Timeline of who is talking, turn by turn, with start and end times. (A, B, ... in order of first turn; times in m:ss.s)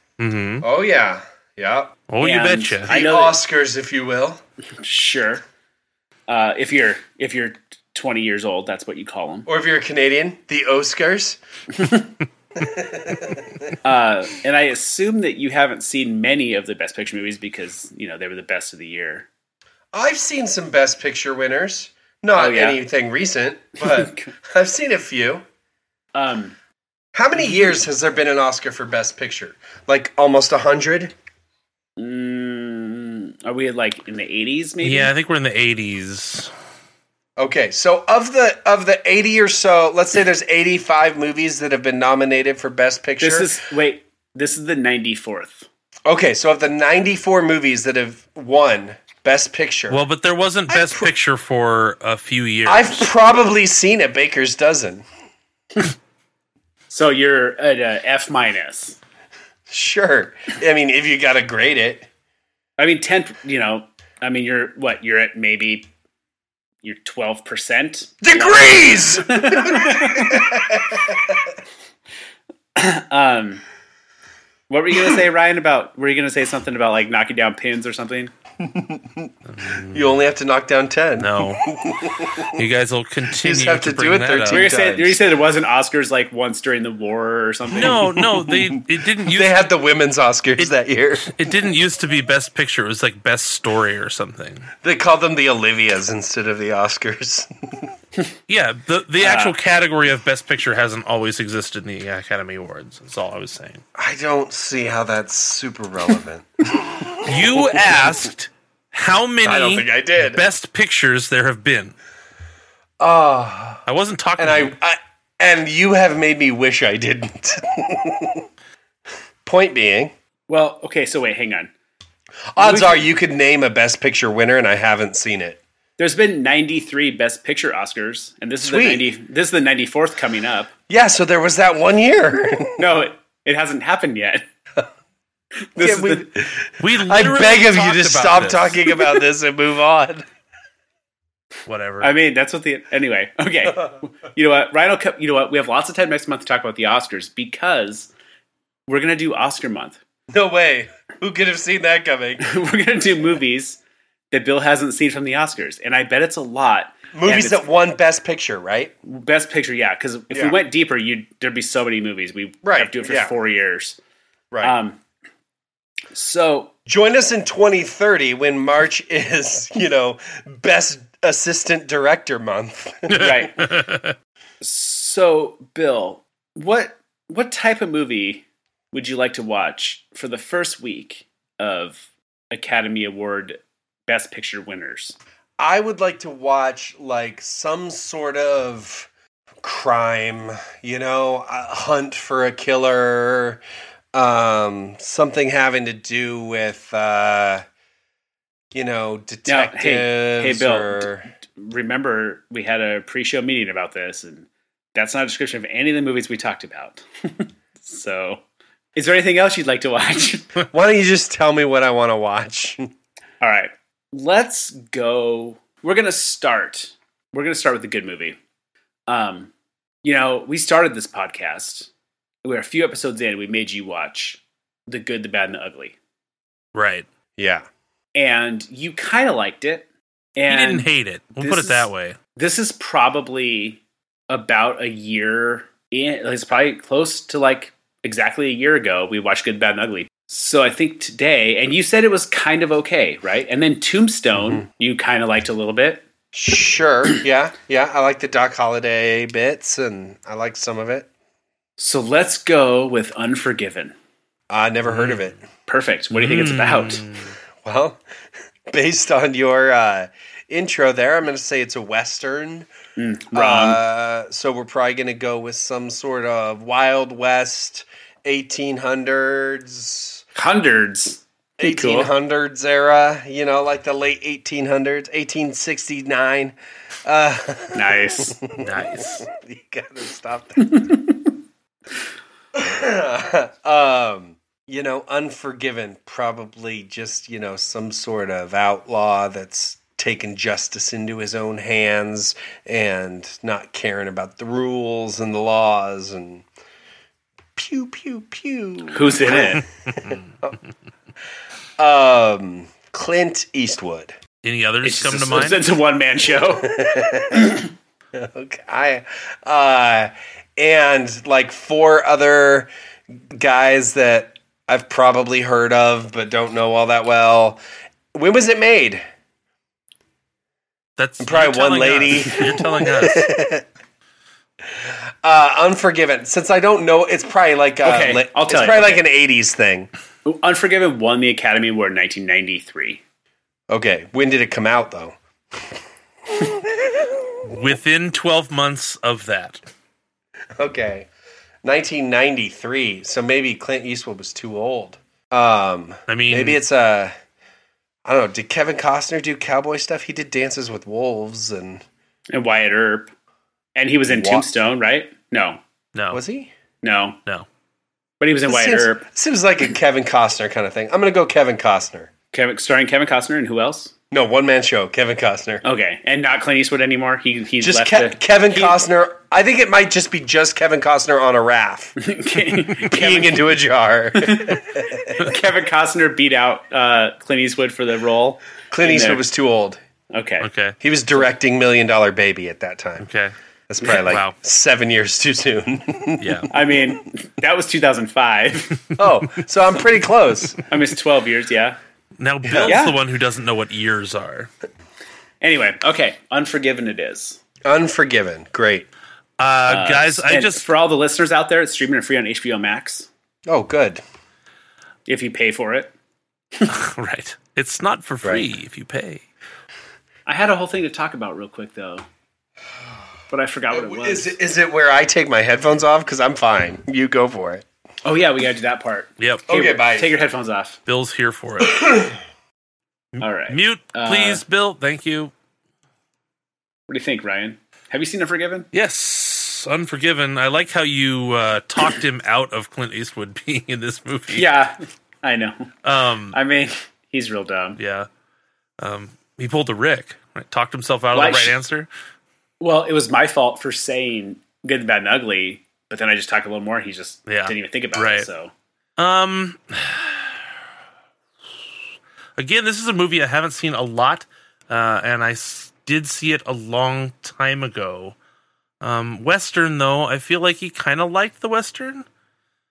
0:00.2-0:00.6 A
0:00.6-0:02.0 B
0:02.1-0:02.9 A
0:02.2-0:03.4 C
0:02.9-0:04.4 B
0:04.8-0:05.4 C
0:06.3-0:09.5 C
0:09.4-0:11.4 B
0:12.6-0:13.7 B
0:13.8-0:19.3 C
0:19.9-0:25.4 B
0:22.4-0:22.8 C
0:23.8-0:24.3 C
0:26.1-0:26.5 C
0:27.1-0:31.1 B
0:27.4-0:27.8 C
0:32.0-0:35.1 C
0:34.8-0:36.5 A
0:37.4-0:43.5 B
0:43.2-0:45.7 C
0:46.1-0:50.0 B
0:49.9-0:53.0 A
0:50.7-0:51.1 B
0:52.6-0:55.0 B
0:56.9-0:59.0 C
0:59.7-1:02.1 B
1:02.8-1:05.9 C
1:06.8-1:10.5 C
1:08.2-1:11.5 B
1:12.8-1:13.6 C
1:14.7-1:18.3 C
1:18.6-1:19.3 B
1:19.5-1:20.2 A
1:19.9-1:22.6 B
1:21.2-1:21.8 A
1:22.5-1:24.6 A
1:23.3-1:25.2 B
1:24.5-1:28.0 C
1:27.7-1:29.6 A
1:27.8-1:31.5 B
1:31.2-1:34.7 A
1:34.8-1:37.9 B
1:38.5-1:43.8 A
1:39.2-1:39.5 C
1:44.0-1:47.7 B
1:47.2-1:51.9 A
1:49.4-1:50.4 B
1:53.0-1:53.8 B
1:53.8-1:54.7 A
1:54.4-1:58.4 B
1:59.4-2:00.1 B
2:00.5-2:01.7 C
2:02.5-2:05.6 B
2:02.6-2:03.1 C
2:06.0-2:10.7 C
2:08.6-2:09.1 B
2:10.9-2:12.8 B
2:12.8-2:14.4 C
2:15.7-2:16.3 C
2:15.8-2:20.2 B
2:16.8-2:18.8 A
2:21.7-2:22.1 A
2:22.0-2:28.1 C
2:28.9-2:30.0 C
2:30.3-2:32.4 B
2:32.4-2:33.8 C
2:34.3-2:37.6 C
2:37.1-2:38.9 B
2:39.0-2:44.0 C
2:42.6-2:43.3 B
2:44.5-2:44.8 B
2:44.6-2:45.0 C
2:46.1-2:46.7 C
2:46.8-2:53.6 B
2:53.1-2:54.1 A
2:53.2-2:53.7 C
2:54.6-3:05.2 C
3:05.6-3:09.1 B
3:09.6-3:13.6 B
3:14.1-3:17.6 B
3:18.7-3:21.3 B
3:19.5-3:28.4 C
3:28.9-3:30.5 C
3:30.7-3:32.9 B
3:33.4-3:38.4 C
3:39.1-3:39.5 C
3:40.0-3:41.9 C
3:42.4-3:46.0 C
3:46.7-3:47.0 A
3:47.4-3:47.7 B
3:48.1-4:06.0 C
3:50.5-3:52.2 A
4:06.3-4:11.1 B
4:11.8-4:13.9 C
4:14.5-4:15.4 B
4:14.9-4:15.2 A
4:15.7-4:17.1 C
4:16.1-4:17.3 A
4:17.6-4:18.0 B
4:18.7-4:22.7 B
4:23.0-4:23.8 C
4:23.3-4:30.2 B
4:30.3-4:32.1 C
4:31.6-4:40.9 B
4:37.7-4:38.4 C
4:38.6-4:39.2 A
4:40.6-4:41.3 C
4:42.5-4:56.4 B
4:57.6-5:00.5 B
4:58.9-4:59.6 C
4:59.4-5:00.2 A
5:01.8-5:04.2 B
5:04.4-5:05.6 A
5:04.8-5:06.8 C
5:06.6-5:07.6 B
5:07.3-5:07.6 C
5:08.1-5:12.7 B
5:13.3-5:17.6 B
5:18.1-5:19.0 B
5:21.0-5:23.3 A
5:21.2-5:23.6 B
5:24.7-5:29.9 B
5:27.8-5:29.0 C
5:30.2-5:33.0 C
5:33.7-5:35.2 B
5:36.3-5:37.5 B
5:37.4-5:39.6 A
5:40.6-5:41.1 B
5:41.6-5:47.1 B
5:46.1-5:46.6 A
5:48.0-5:51.8 B
5:52.3-5:53.1 C
5:53.7-5:55.6 C
5:54.0-5:54.5 B
5:55.9-5:56.2 A
5:56.1-5:56.5 B
5:56.8-5:57.2 C
5:58.2-5:59.0 C
5:58.4-6:02.1 B
6:02.3-6:03.9 C
6:04.1-6:05.6 B
6:05.6-6:08.8 C
6:07.6-6:12.0 B
6:12.0-6:13.4 C
6:12.8-6:15.3 B
6:14.2-6:14.6 C
6:15.2-6:19.2 C
6:18.7-6:19.8 B
6:20.1-6:20.5 C
6:20.4-6:20.8 A
6:20.8-6:23.1 B
6:23.0-6:24.4 A
6:23.7-6:26.4 B
6:26.2-6:26.5 A
6:26.5-6:28.8 C
6:29.0-6:30.6 B
6:30.7-6:31.8 C
6:32.2-6:34.5 A
6:32.4-6:32.8 B
6:32.6-6:33.0 C
6:35.4-6:37.4 C
6:37.6-6:38.9 B
6:39.4-6:40.6 A
6:39.7-6:43.1 C
6:43.4-6:44.0 B
6:45.1-6:45.9 C
6:46.7-6:49.2 A
6:50.2-6:52.0 C
6:53.3-6:54.4 C
6:53.7-6:57.6 B
6:58.0-7:00.8 C
6:59.2-6:59.4 A
6:59.5-7:00.1 B
7:00.9-7:02.0 A
7:01.6-7:02.2 B
7:03.1-7:05.3 A
7:03.2-7:04.4 C
7:06.9-7:08.7 C
7:08.7-7:14.4 A
7:14.3-7:15.7 C
7:15.8-7:16.4 A
7:16.3-7:17.8 C
7:17.8-7:18.1 A
7:18.8-7:21.9 A
7:21.1-7:21.6 C
7:22.6-7:28.5 C
7:27.3-7:28.3 A
7:29.0-7:30.4 A
7:32.4-7:38.1 A
7:38.8-7:42.0 A